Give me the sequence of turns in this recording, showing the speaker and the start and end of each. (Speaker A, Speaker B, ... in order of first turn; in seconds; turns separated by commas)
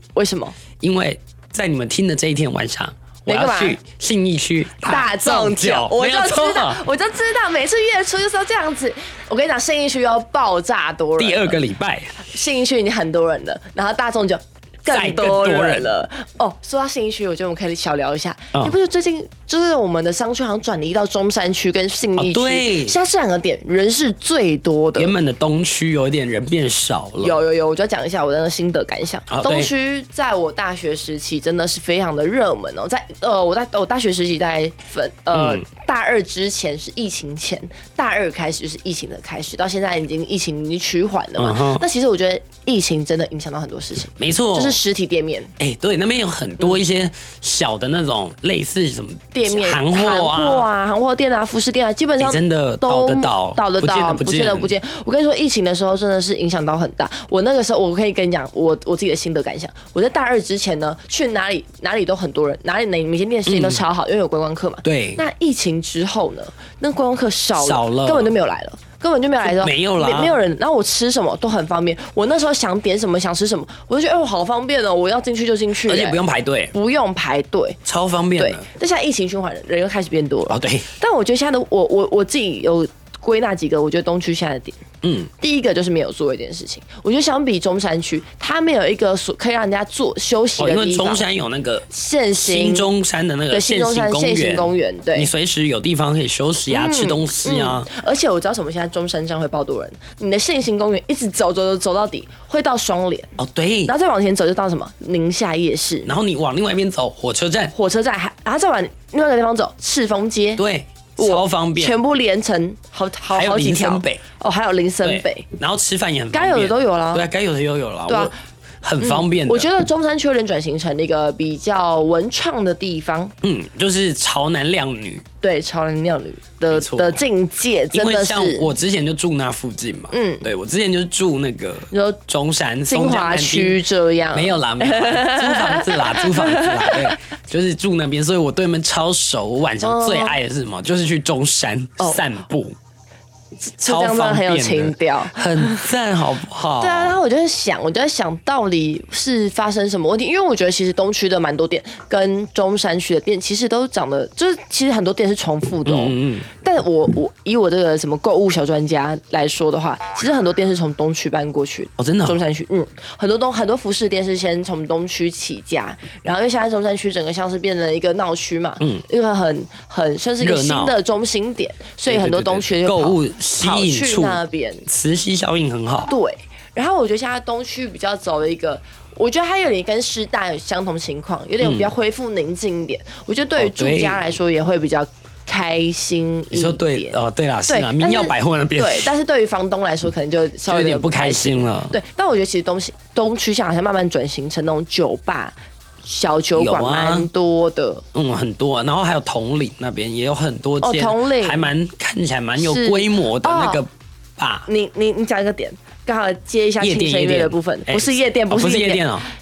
Speaker A: 0.1-0.6, Speaker B: 0.8-6.8, Speaker A: 3.3-3.8, Speaker A: 4.8-11.6, Speaker B: 11.2-12.2, Speaker A: 12.2-25.1, Speaker B: 14.9-15.9, Speaker B: 22.2-23.0, Speaker B: 25.0-27.4, Speaker A: 27.2-45.5, Speaker B: 29.3-29.7, Speaker B: 35.3-35.6, Speaker B: 41.4-41.8, Speaker B: 44.2-44.8, Speaker B: 45.6-50.7, Speaker A: 49.3-76.2, Speaker B: 52.2-54.7, Speaker B: 63.5-63.8, Speaker B: 64.8-65.2, Speaker B: 67.6-68.3, Speaker B: 69.4-70.4, Speaker B: 75.8-76.7, Speaker A: 76.7-77.8, Speaker B: 77.8-78.7, Speaker A: 78.4-84.8, Speaker B: 80.5-80.9, Speaker B: 85.0-85.3, Speaker A: 85.4-91.2, Speaker B: 90.6-91.8, Speaker A: 91.9-92.9, Speaker B: 92.4-97.9, Speaker A: 93.5-95.3, Speaker A: 96.7-103.3, Speaker B: 103.4-103.9, Speaker A: 103.8-106.1, Speaker B: 106.0-107.7, Speaker A: 107.7-110.6, Speaker B: 110.6-112.0, Speaker A: 111.2-115.5, Speaker B: 113.3-114.2, Speaker B: 115.0-119.7, Speaker A: 116.3-117.2, Speaker A: 119.0-123.3, Speaker B: 123.4-125.2, Speaker A: 125.4-128.7, Speaker B: 126.7-127.2, Speaker B: 127.9-133.8, Speaker A: 130.1-130.4, Speaker A: 131.9-132.2, Speaker A: 132.9-137.2, Speaker B: 134.3-142.8, Speaker A: 139.8-140.4, Speaker A: 142.0-142.2, Speaker A: 143.7-145.8, Speaker B: 143.8-147.1, Speaker A: 146.8-174.9, Speaker B: 155.8-156.5, Speaker B: 162.0-162.4, Speaker B: 170.4-171.0, Speaker B: 172.1-176.1, Speaker A: 176.1-198.0, Speaker B: 181.6-181.9, Speaker B: 183.6-184.3, Speaker B: 186.5-189.1, Speaker B: 190.7-192.0, Speaker B: 196.5-197.3, Speaker B: 198.1-204.7, Speaker A: 200.8-201.7, Speaker A: 202.6-203.8, Speaker A: 204.7-209.1, Speaker B: 206.8-209.3